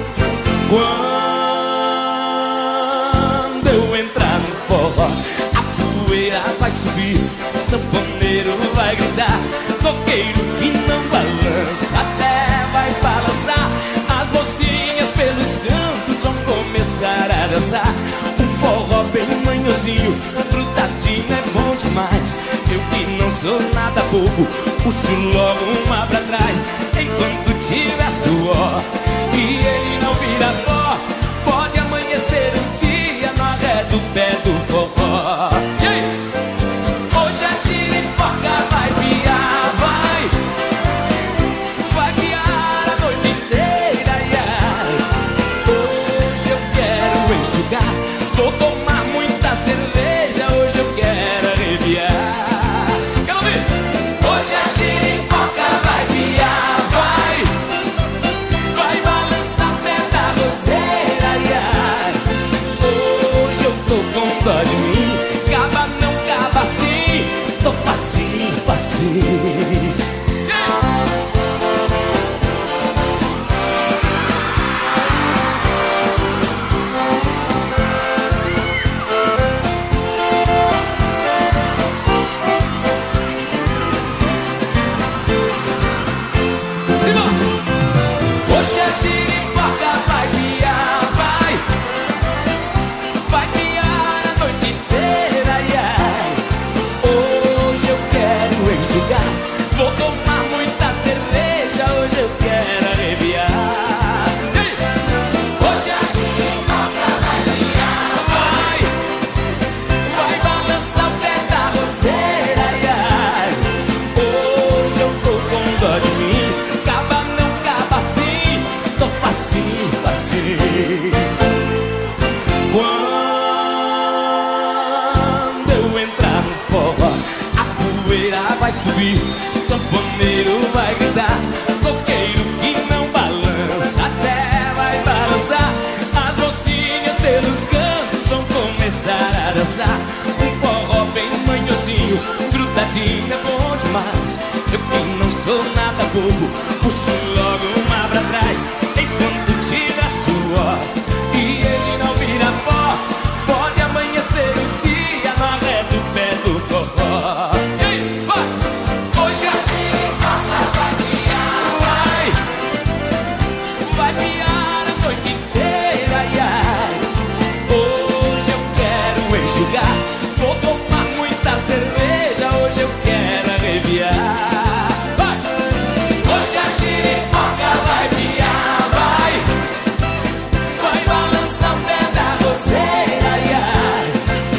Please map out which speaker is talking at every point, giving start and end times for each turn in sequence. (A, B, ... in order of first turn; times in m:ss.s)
0:00.6-0:36.2 A
0:37.1-0:40.3 A
0:41.8-0:45.1 A
0:45.6-0:57.6 A
0:58.7-1:10.8 A
1:27.0-1:27.4 A
1:28.4-1:31.6 A
1:33.2-1:36.4 A
1:37.0-1:44.8 A
1:45.5-1:49.0 A
1:50.0-2:01.3 A
2:02.7-2:42.4 A
2:43.8-2:55.4 A
2:56.2-2:59.5 A
3:00.7-3:04.2 A